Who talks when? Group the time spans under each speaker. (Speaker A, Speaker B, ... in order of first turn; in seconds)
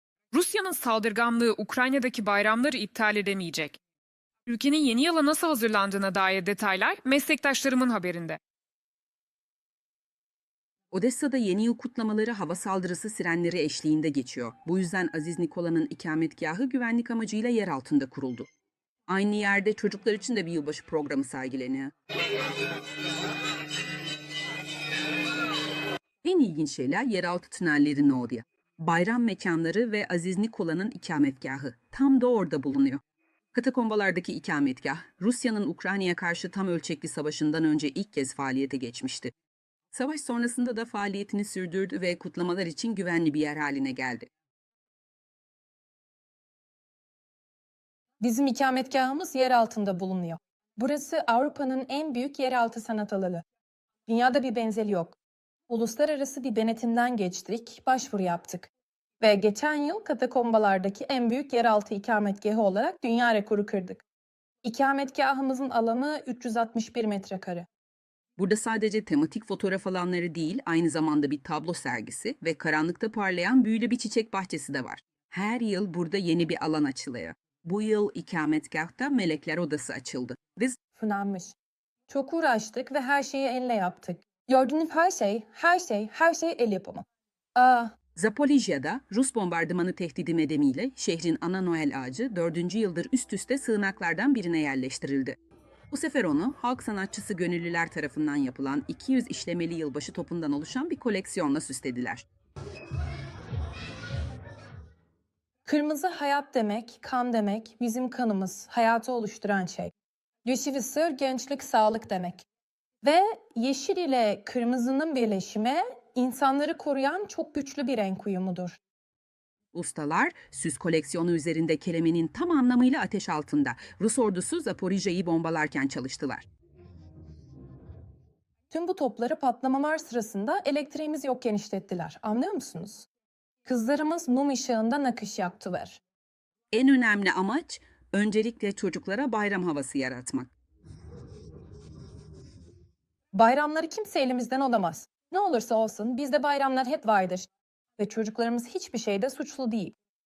Speaker A: 0.3-3.8, 4.5-8.4
Speaker B: 10.9-18.5, 19.1-21.9, 26.2-33.0, 33.5-39.3, 39.9-44.3, 68.4-80.8, 88.2-95.4, 95.9-102.2, 119.7-126.5, 136.7-140.5
Speaker C: 48.2-53.4, 54.1-55.2, 55.7-58.7, 59.2-64.0, 64.6-67.7, 81.0-81.5, 82.1-87.0, 87.6-87.9, 105.7-109.9, 110.5-112.4, 113.0-118.8, 128.7-133.1, 133.7-136.0, 143.3-149.9